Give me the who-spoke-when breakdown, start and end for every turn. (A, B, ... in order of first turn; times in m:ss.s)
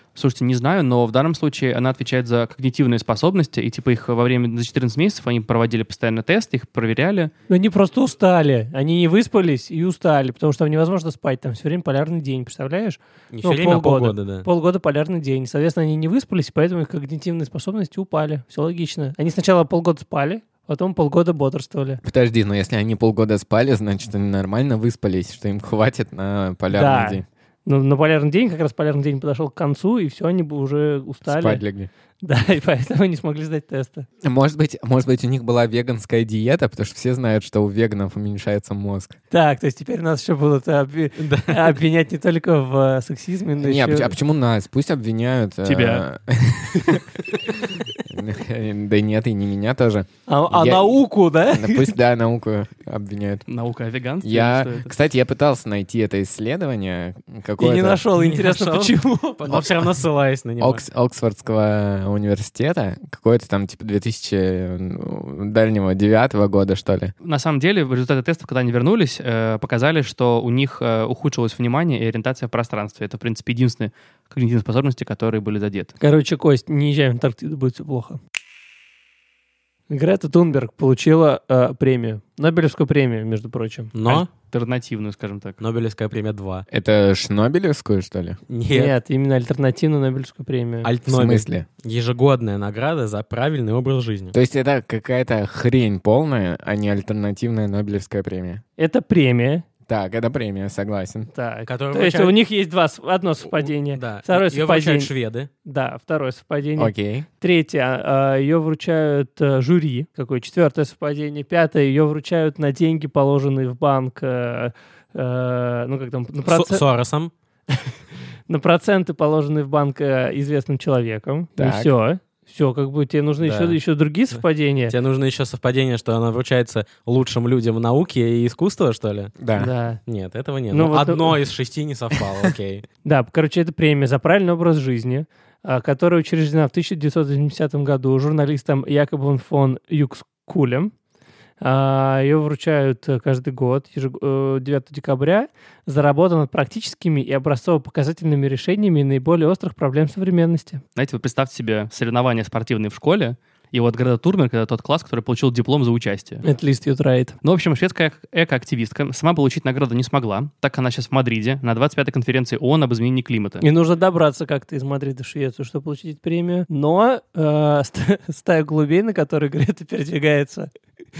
0:00.2-0:07.3 A
0:07.5-0:22.0 B
0:13.3-0:14.5 C
0:22.0-0:27.2 D
0:26.7-0:31.6 B
0:31.3-0:31.9 D
0:32.2-0:34.1 B
0:34.2-0:39.2 D
0:39.3-0:44.1 B
0:41.2-0:41.8 C
0:43.6-0:51.0 D
0:45.6-0:46.1 A
0:50.3-0:51.9 B
0:51.5-0:53.4 D
0:53.5-0:54.9 A
0:54.2-0:58.0 D
0:57.6-0:59.6 B
0:58.1-1:00.8 C
1:00.6-1:07.1 D
1:07.2-1:15.9 A
1:16.0-1:18.2 B
1:19.9-1:23.9 B
1:23.9-1:24.3 C
1:24.0-1:25.6 A
1:25.6-1:26.7 C
1:26.7-1:28.4 D
1:28.5-1:29.0 C
1:28.7-1:30.9 B
1:30.8-1:34.4 C
1:31.1-1:31.7 D
1:34.3-1:38.6 D
1:38.8-1:39.6 B
1:39.9-1:41.3 D
1:41.3-1:45.1 B
1:41.7-1:42.4 C
1:43.9-1:45.5 C
1:45.6-1:56.8 B
1:46.8-1:47.3 D
1:56.5-1:57.3 C
1:58.5-2:05.0 B
2:01.6-2:01.9 D
2:03.4-2:03.8 C
2:04.9-2:09.3 C
2:09.4-2:09.7 D
2:09.6-2:10.0 B
2:10.1-2:12.9 C
2:10.7-2:11.4 B
2:13.0-2:20.9 B
2:21.6-2:30.8 B
2:31.0-2:36.4 A
2:36.4-2:37.4 B
2:37.4-2:43.6 A
2:43.6-2:50.7 B